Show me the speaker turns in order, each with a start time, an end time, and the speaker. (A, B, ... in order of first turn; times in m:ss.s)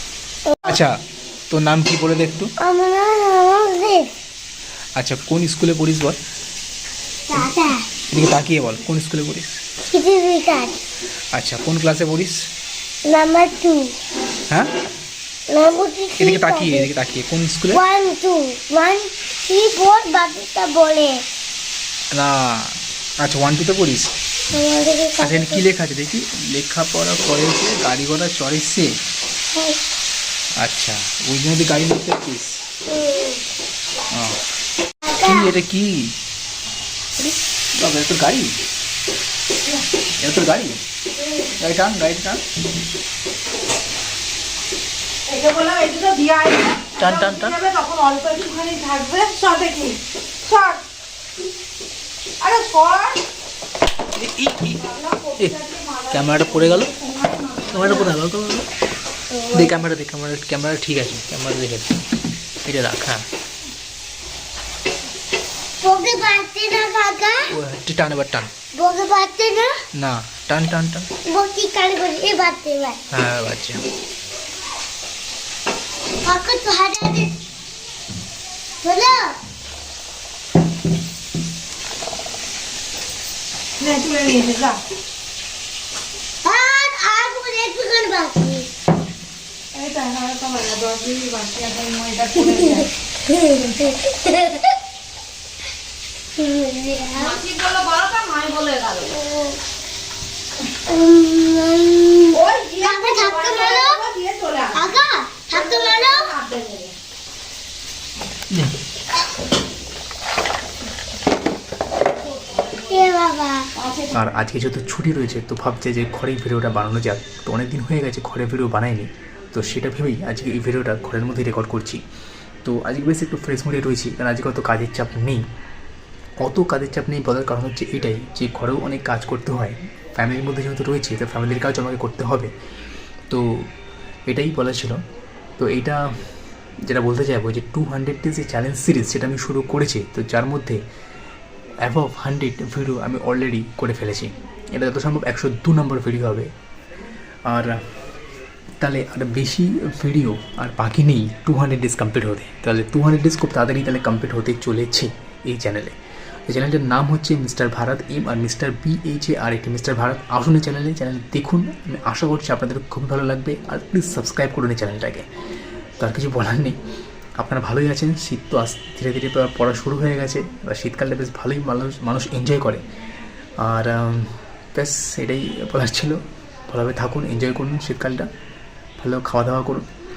0:00.5-0:00.8 A
0:00.6-0:01.0 B
0:01.5-0:02.5 B
0:02.6-0:04.1 A
0:05.0-0:06.2 B
0:07.3-0:07.9 A
0:08.1-0:09.6 B
0:09.8-0:10.8 A
0:11.3-0:12.4 B
0:13.1-0:13.9 A
0:15.5-0:16.9 A
0:16.2-0:17.8 B
0:17.7-0:21.2 A
0:22.1-0:24.1 B
0:24.5-0:25.6 A
0:25.2-0:29.0 B
0:30.6-0:32.6 B
0:32.9-0:33.4 A
0:34.1-0:34.4 B
0:35.0-0:35.5 A
0:35.2-0:36.1 B
0:37.2-0:38.6 B
0:40.2-0:40.8 B
0:41.6-0:42.4 B
0:45.3-0:50.8 C
0:46.9-0:47.6 B
0:52.4-0:53.2 C
0:54.2-0:54.8 B
0:54.8-0:58.1 C
0:56.1-0:56.9 B
0:57.7-0:58.7 B
0:59.3-0:59.7 A
0:59.5-1:01.9 B
1:02.6-1:03.2 B
1:05.8-1:07.5 A
1:07.5-1:08.5 B
1:08.7-1:09.7 A
1:09.9-1:11.1 B
1:11.3-1:13.0 A
1:13.1-1:13.8 B
1:16.2-1:17.3 A
1:18.8-1:19.3 A
1:23.8-1:24.8 C
1:26.4-1:28.7 A
1:29.7-1:32.9 C
1:32.8-1:34.7 A
1:36.4-1:37.4 A
1:37.2-1:39.1 C
1:39.1-1:39.6 A
1:40.9-1:44.0 A
1:42.3-1:44.9 C
1:44.7-1:46.3 A
1:45.5-1:46.9 C
1:52.5-1:52.8 C
1:52.9-1:53.7 A
1:53.8-1:54.1 C
1:54.1-2:02.0 B
2:02.6-2:05.4 B
2:06.4-2:12.5 B
2:13.3-2:13.7 B
2:14.3-2:15.0 B
2:15.6-2:16.0 B
2:16.9-2:20.8 B
2:21.8-2:26.5 B
2:27.5-2:27.8 B
2:28.8-2:36.0 B
2:36.5-2:45.3 B
2:46.0-2:46.8 B
2:47.4-2:52.8 B
2:53.6-2:58.3 B
2:59.0-2:59.9 B